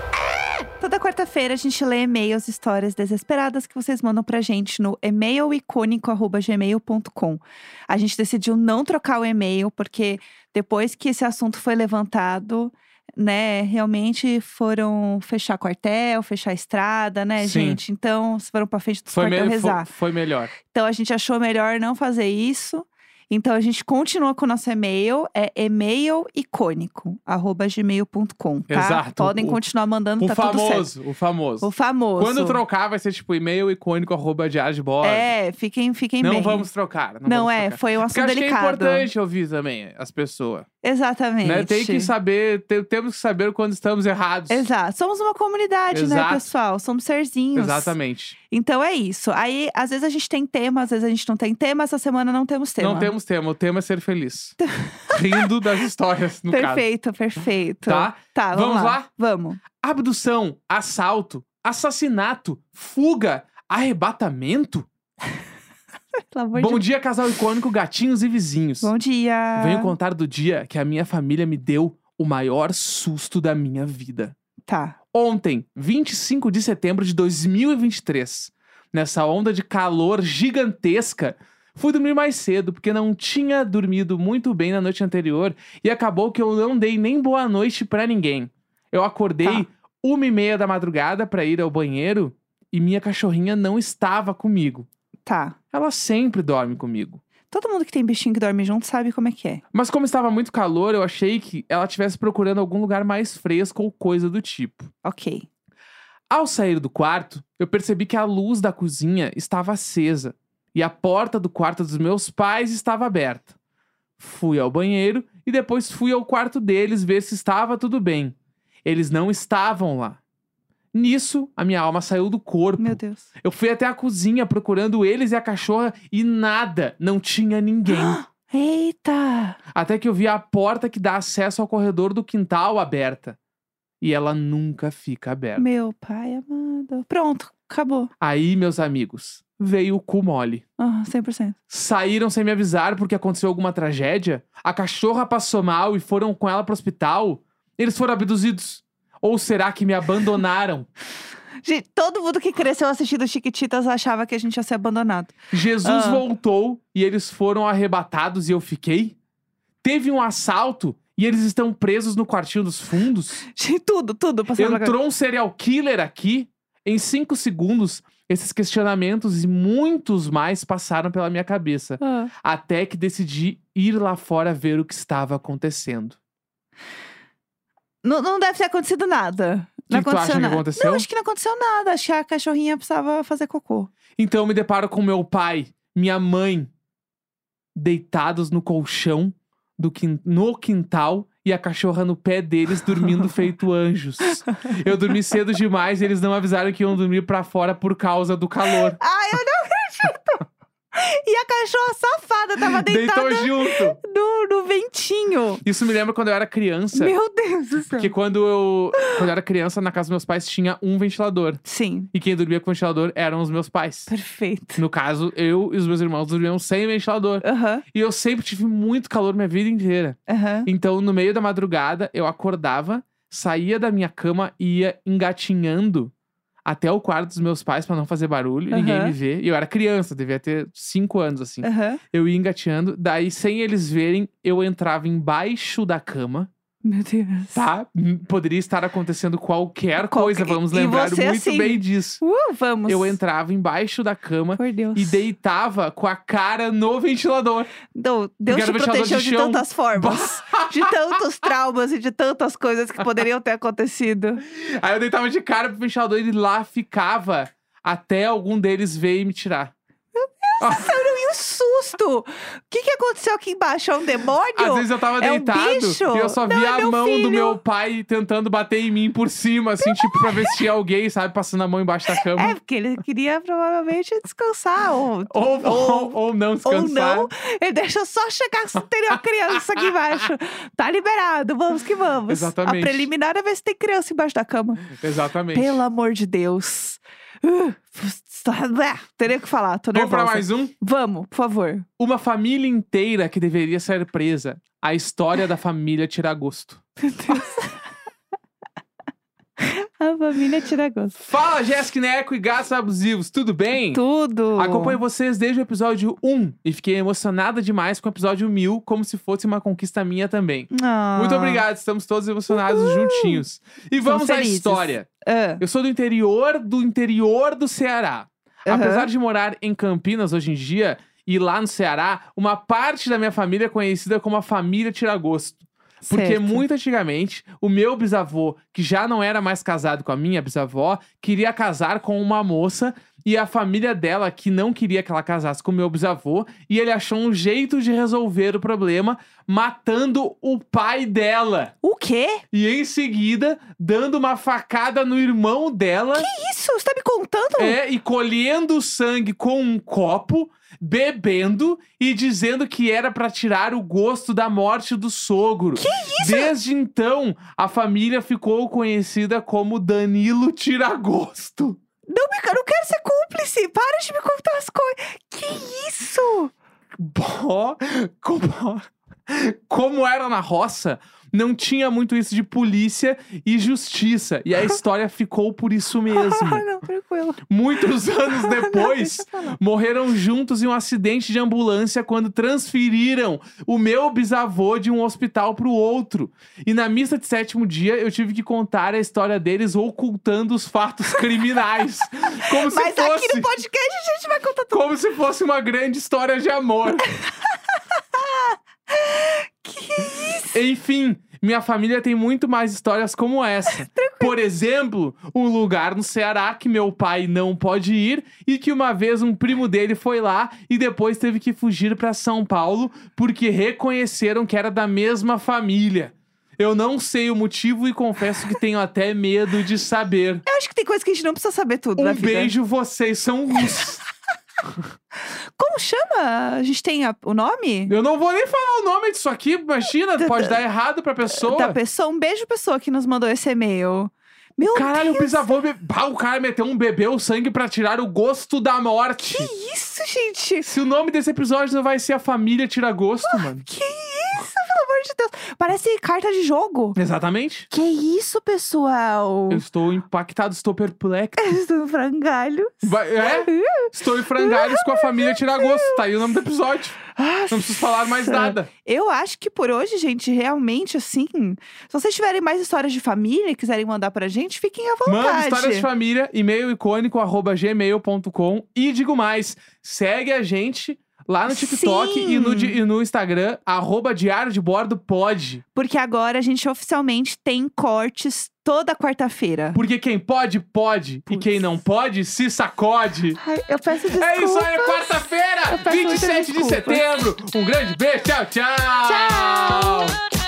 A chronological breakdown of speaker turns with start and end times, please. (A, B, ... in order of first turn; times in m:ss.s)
0:00.8-0:19.9 A
0:17.4-0:17.8 B
0:19.1-0:20.5 B
0:20.6-0:30.9 A
0:28.7-0:29.6 B
0:30.2-0:35.3 B
0:31.6-0:32.6 A
0:35.0-0:36.7 A
0:36.2-0:40.7 B
0:37.2-0:39.1 A
0:40.8-0:42.1 A
0:41.4-0:44.7 B
0:44.5-0:47.9 A
0:45.9-0:46.5 B
0:47.6-0:48.4 B
0:48.5-0:53.1 A
0:52.8-0:54.6 B
0:54.6-0:55.5 A
0:55.1-0:56.8 B
0:56.5-0:59.6 A
0:57.9-0:59.1 B
0:59.8-1:04.9 B
1:06.3-1:06.8 A
1:06.6-1:08.9 B
1:08.8-1:09.9 A
1:09.6-1:14.4 B
1:14.7-1:15.0 A
1:15.1-1:34.9 B
1:35.3-1:35.6 A
1:35.7-1:37.2 B
1:37.5-1:39.6 A
1:39.7-1:44.9 B
1:45.0-1:45.5 A
1:46.3-1:53.5 B
1:54.2-2:00.2 B
2:00.9-2:08.2 B
2:02.8-2:03.2 A
2:07.9-2:09.6 A
2:09.7-2:13.4 B
2:14.0-2:15.6 B
2:15.6-2:18.1 A
2:18.2-2:20.6 B
2:20.8-2:21.6 A
2:21.7-2:30.9 B
2:31.6-2:36.2 A
2:35.5-2:39.2 B
2:39.8-2:43.4 B
2:43.5-2:45.0 A
2:44.6-2:56.2 B
2:52.0-2:52.3 A
2:58.0-3:03.9 A
2:59.9-3:01.1 B
3:04.2-3:06.7 B
3:07.8-3:19.0 B
3:14.2-3:14.5 A
3:18.7-3:25.6 A
3:22.6-3:24.0 B
3:25.6-3:27.2 B
3:26.9-3:28.1 A
3:28.0-3:34.1 B
3:29.0-3:29.2 A
3:31.6-3:32.1 A
3:34.1-3:34.8 A
3:34.8-3:46.1 B
3:37.4-3:37.8 A
3:40.3-3:40.7 A
3:46.6-3:56.5 B
3:48.7-3:49.2 A
3:51.6-3:52.0 A
3:56.8-3:57.6 A
3:57.5-4:02.2 B
4:00.0-4:03.2 A
4:02.9-4:07.7 B
4:04.6-4:05.2 A
4:07.9-4:14.4 A
4:08.5-4:11.2 B
4:14.5-4:19.7 B
4:20.2-4:27.6 A
4:20.6-4:21.0 B
4:24.6-4:32.6 B
4:29.8-4:30.6 A
4:32.2-4:45.0 A
4:35.3-4:37.3 B
4:42.3-4:43.1 B
4:44.9-4:45.8 B
4:45.5-4:51.9 A
4:50.0-4:50.7 B
4:52.0-4:56.8 B
4:57.0-4:57.8 A
4:59.6-5:01.2 A
5:01.2-5:04.0 B
5:03.9-5:05.0 A
5:04.6-5:15.1 B
5:10.7-5:11.6 A
5:12.5-5:13.4 A
5:14.0-5:15.6 A
5:15.6-5:41.7 B
5:18.7-5:19.1 A
5:26.0-5:26.6 A
5:41.8-5:42.4 A
5:42.5-5:46.3 B
5:46.2-5:47.8 A
5:47.6-6:01.8 B
5:55.8-5:56.5 A
6:02.1-6:06.5 A
6:07.0-6:16.7 B
6:16.1-6:17.4 A
6:17.5-6:33.5 B
6:18.3-6:19.6 A
6:32.4-6:34.9 A
6:34.7-6:37.1 B
6:37.1-6:40.6 A
6:40.5-7:00.4 B
6:43.8-6:44.3 A
7:00.5-7:02.5 A
7:02.0-7:04.0 B
7:05.6-7:07.9 A
7:07.9-7:11.8 B
7:10.2-7:10.6 A
7:11.3-7:15.5 A
7:14.6-7:19.5 B
7:19.2-7:20.7 A
7:20.7-7:23.6 B
7:23.2-7:27.0 A
7:27.0-7:27.7 B
7:27.7-7:29.6 A
7:29.5-7:31.4 B
7:31.4-7:36.0 A
7:32.8-7:38.7 B
7:37.1-7:45.9 A
7:45.1-7:55.6 B
7:51.5-7:52.8 A
7:55.8-7:59.8 A
7:59.7-8:03.4 B
8:03.4-8:07.0 A
8:04.1-8:10.2 B
8:09.0-8:10.2 A